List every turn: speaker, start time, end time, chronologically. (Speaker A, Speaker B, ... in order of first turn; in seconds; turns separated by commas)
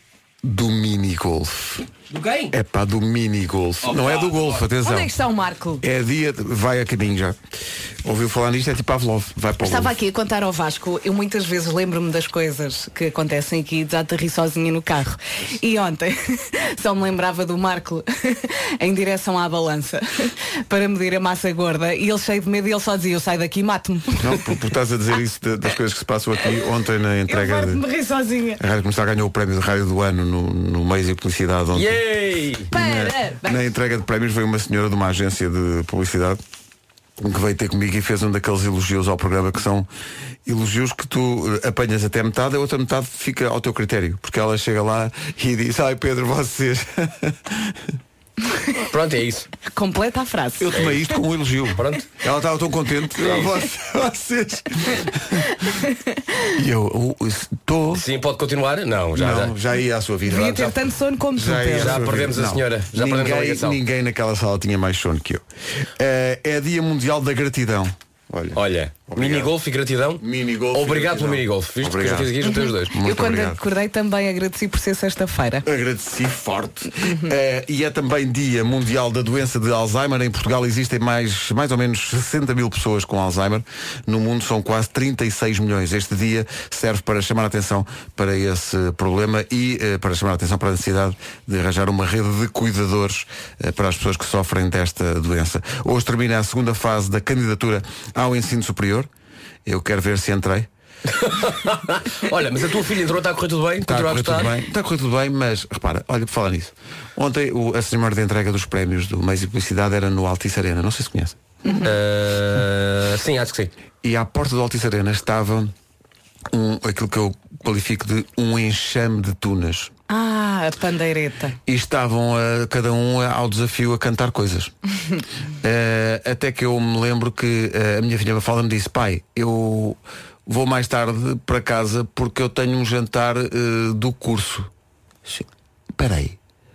Speaker A: 0.4-1.9, Speaker B: 2.1-2.5, Speaker A: 2.5-5.1, Speaker B: 3.8-4.6, Speaker C: 4.8-5.8, Speaker A: 5.8-7.4, Speaker A: 8.0-9.9, Speaker C: 9.6-24.3, Speaker A: 24.2-27.8, Speaker C: 27.3-28.6, Speaker A: 28.6-32.0, Speaker B: 31.7-32.7, Speaker C: 32.7-33.7, Speaker A: 32.7-36.4, Speaker A: 37.2-39.9, Speaker A: 40.5-47.7, Speaker B: 48.9-49.5, Speaker C: 49.6-50.7, Speaker A: 50.6-55.5, Speaker B: 51.8-52.0, Speaker B: 53.2-53.5, Speaker A: 56.5-58.0, Speaker B: 57.9-59.5, Speaker A: 59.1-60.7, Speaker C: 60.2-62.0, Speaker A: 61.4-65.4, Speaker B: 61.8-63.8, Speaker A: 66.0-69.5, Speaker B: 68.5-72.9, Speaker A: 70.2-72.4, Speaker C: 72.4-75.6, Speaker A: 72.9-73.6, Speaker A: 75.6-99.1, Speaker C: 77.0-77.3, Speaker A: 99.7-100.7, Speaker B: 101.1-104.5, Speaker A: 103.8-111.4, Speaker B: 111.7-113.7, Speaker A: 114.0-115.7, Speaker A: 116.5-119.9, Speaker C: 120.1-121.5, Speaker A: 121.7-124.7, Speaker A: 125.6-134.7, Speaker A: 136.0-136.4